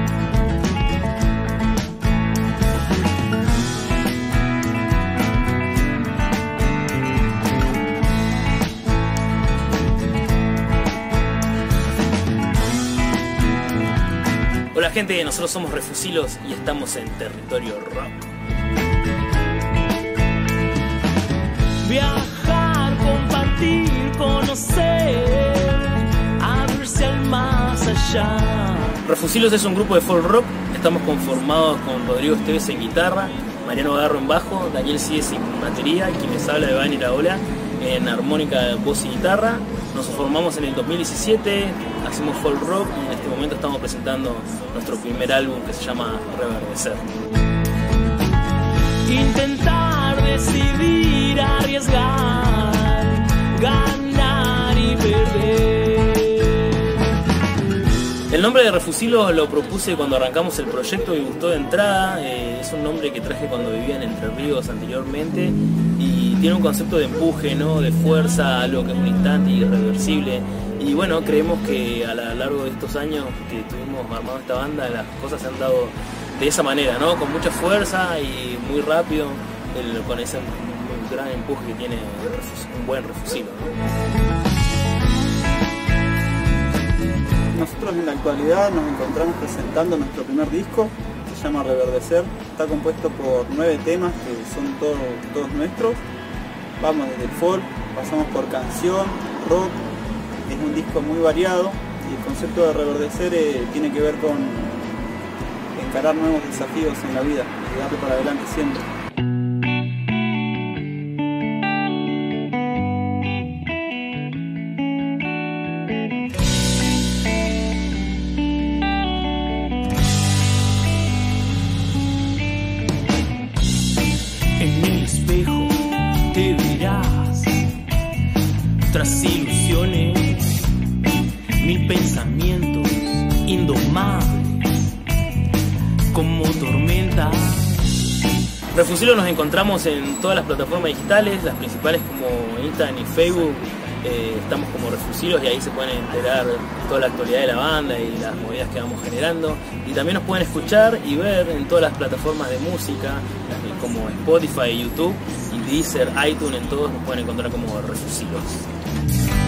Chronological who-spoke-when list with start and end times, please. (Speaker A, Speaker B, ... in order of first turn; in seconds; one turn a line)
Speaker A: 14.7-18.3
Speaker B: 21.8-29.0
Speaker A: 29.0-47.0
Speaker B: 49.0-56.9
Speaker A: 58.3-83.7
Speaker C: 87.5-96.0
Speaker C: 96.8-99.8
Speaker C: 100.5-104.7
Speaker C: 105.7-108.9
Speaker B: 124.6-127.7
Speaker B: 128.9-130.7
Speaker B: 131.6-135.0
Speaker B: 136.1-138.0
Speaker A: 138.7-158.6